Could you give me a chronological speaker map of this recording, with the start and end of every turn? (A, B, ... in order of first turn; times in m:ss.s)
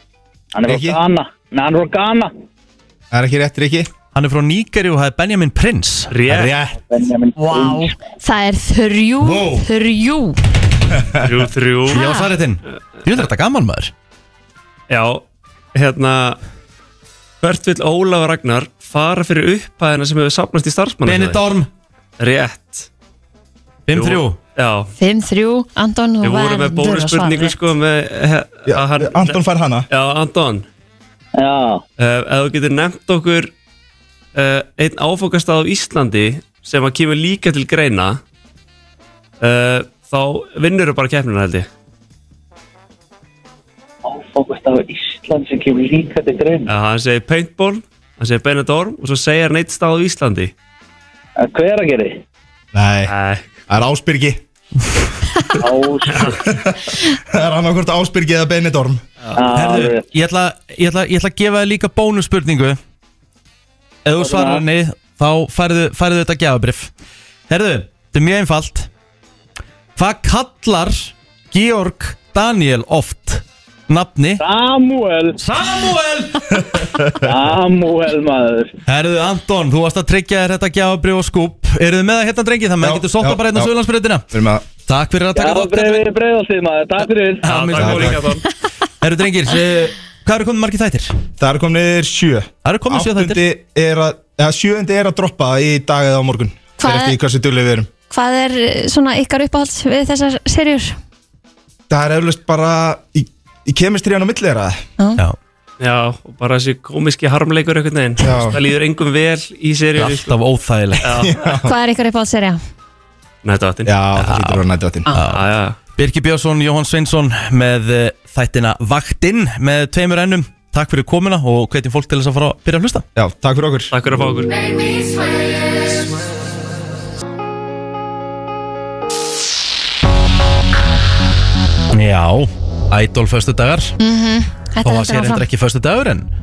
0:00.5-0:02.3 A
0:00.6-0:01.0 B
0:03.1-0:03.9 B
0:04.1-0:06.2 C
0:06.1-0:06.6 D
0:06.3-0:06.7 B
0:06.7-0:07.9 A
0:07.4-0:10.4 E
0:09.3-0:09.5 C
0:11.2-0:12.0 D
0:11.9-0:13.9 C
0:11.9-0:12.3 E
0:14.9-0:15.2 D
0:15.7-0:16.4 D
0:17.4-0:21.4 D
0:21.0-0:21.7 C
0:22.2-0:22.9 D
0:23.9-0:24.4 C
0:23.9-0:24.9 D
0:25.0-0:27.6 E
0:26.2-0:30.6 D
0:28.7-0:29.8 B
0:31.3-0:31.8 A
0:32.0-0:33.5 D
0:34.3-0:38.2 D
0:39.4-0:41.7 D
0:44.0-0:46.7 A
0:46.6-0:50.5 D
0:51.4-0:52.2 A
0:52.7-0:53.1 B
0:53.1-0:53.6 D
0:53.7-0:54.4 B
0:55.6-0:56.3 A
0:56.1-0:56.4 D
0:56.4-0:56.8 B
0:57.3-0:59.0 B
0:59.4-1:00.0 A
0:59.5-1:02.8 C
1:04.0-1:06.9 C
1:04.2-1:04.6 A
1:07.5-1:08.9 C
1:10.0-1:14.4 C
1:14.4-1:15.4 A
1:15.4-1:16.8 C
1:16.7-1:17.2 B
1:17.2-1:18.7 A
1:18.8-1:24.3 C
1:22.8-1:23.7 B
1:24.3-1:24.6 B
1:24.8-1:26.1 C
1:25.3-1:27.4 A
1:27.4-1:28.3 C
1:27.4-1:28.4 D
1:27.8-1:28.2 B
1:29.0-1:31.2 C
1:31.4-1:37.9 B
1:32.6-1:33.4 C
1:36.8-1:37.2 E
1:38.1-1:41.0 E
1:41.9-1:44.8 B
1:45.8-1:50.3 D
1:48.2-1:48.6 B
1:50.0-1:51.1 C
1:51.0-1:51.6 D
1:51.1-1:51.6 B
1:51.6-1:52.6 E
1:53.4-1:54.3 D
1:53.8-1:55.1 B
1:54.2-1:54.6 C
1:55.1-2:03.0 C
1:55.2-1:55.8 D
2:03.2-2:03.9 B
2:03.9-2:04.5 D
2:11.9-2:13.9 C
2:14.0-2:15.5 E
2:14.8-2:16.3 C